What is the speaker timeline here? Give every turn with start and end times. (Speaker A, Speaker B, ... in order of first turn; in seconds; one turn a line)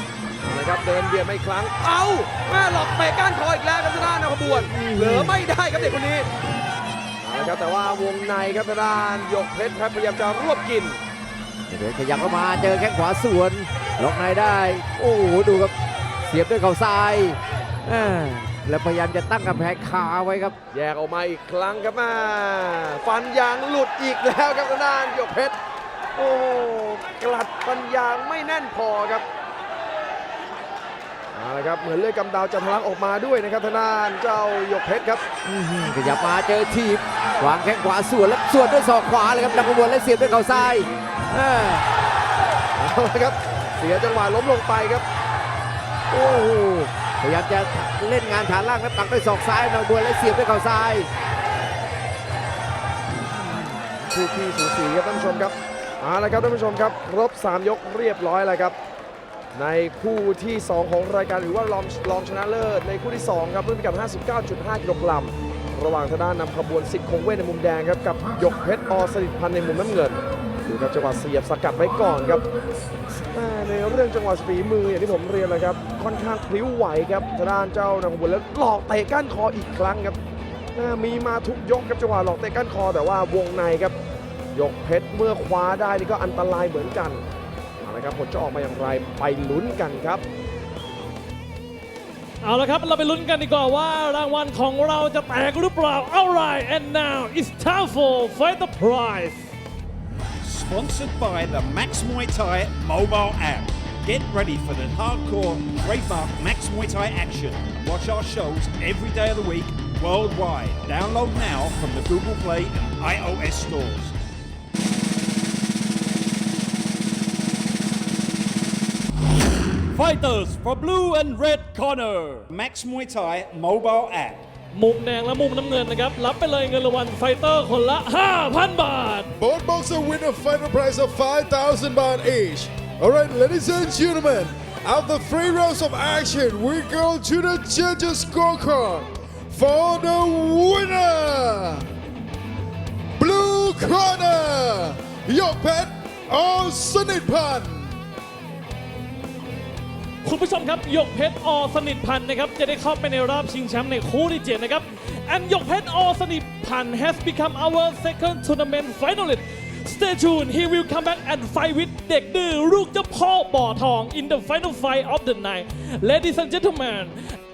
Speaker A: 0.4-6.3
Speaker B: 4.7-5.4
Speaker A: 7.2-11.0
Speaker B: 11.7-15.7
Speaker B: 16.3-20.5
Speaker A: 20.7-25.6
Speaker A: 26.1-29.2
Speaker A: 31.3-35.2
Speaker B: 35.4-41.9
Speaker A: 42.7-45.0
Speaker B: 46.1-51.1
Speaker A: 53.7-58.8
Speaker A: 59.5-72.4
Speaker A: 73.3-80.2
Speaker A: 80.7-83.9
Speaker A: 84.5-87.2
Speaker A: 87.8-90.2
Speaker C: 92.4-99.4
Speaker D: 100.4-114.2
Speaker D: 119.9-124.5
Speaker C: 124.7-129.3
Speaker E: 129.4-141.9
Speaker E: 143.2-148.0
Speaker C: 150.2-167.2